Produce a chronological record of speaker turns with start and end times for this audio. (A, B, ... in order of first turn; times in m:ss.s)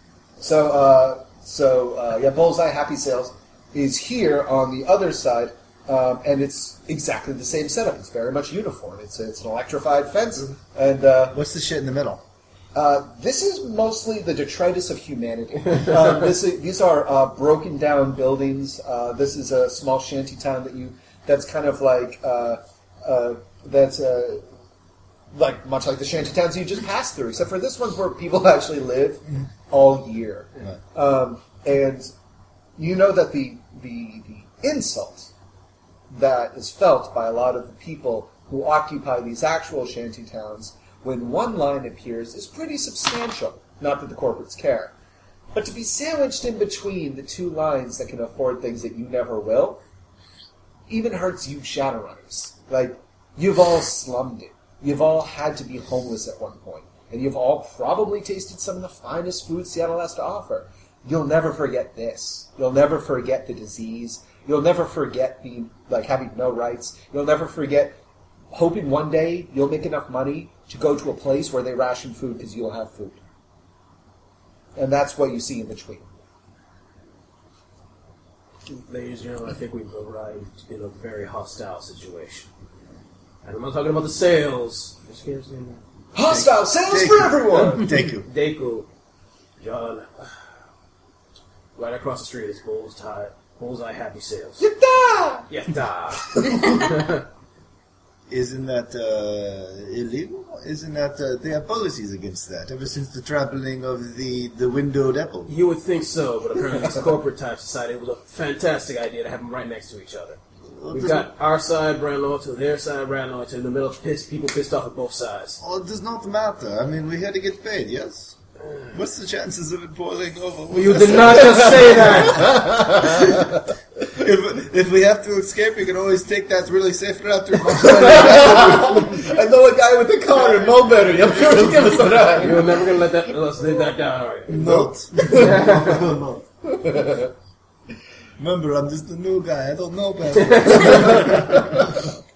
0:00.4-0:11.4 A
0:11.3-0:12.2 B
0:12.7-0:24.4 A
0:25.3-0:32.1 A
0:32.8-0:35.3 A
0:36.1-0:44.9 A
0:45.5-0:49.8 A
0:50.9-1:08.0 A
1:08.5-1:13.2 A
1:14.8-1:16.0 A
1:18.7-1:22.5 C
1:23.4-1:25.8 C
1:26.1-1:27.9 A
1:26.3-1:28.3 B
1:28.2-1:28.9 C
1:29.6-1:30.5 C
1:31.8-1:34.6 C
1:34.6-1:35.5 A
1:35.5-1:37.2 C
1:38.3-1:45.5 B
1:45.5-1:50.4 C
1:50.8-1:51.3 B
1:50.9-1:55.6 C
1:55.6-1:58.4 B
1:58.9-2:02.4 B
2:00.7-2:02.6 C
2:02.4-2:03.4 A
2:04.1-2:09.2 B
2:07.8-2:12.7 A
2:11.4-2:11.9 B
2:12.4-2:14.7 C
2:14.5-2:16.5 B
2:14.6-2:15.6 A
2:15.2-2:16.0 C
2:16.8-2:17.3 A
2:18.4-2:21.7 B
2:20.4-2:21.0 C
2:20.9-2:22.0 A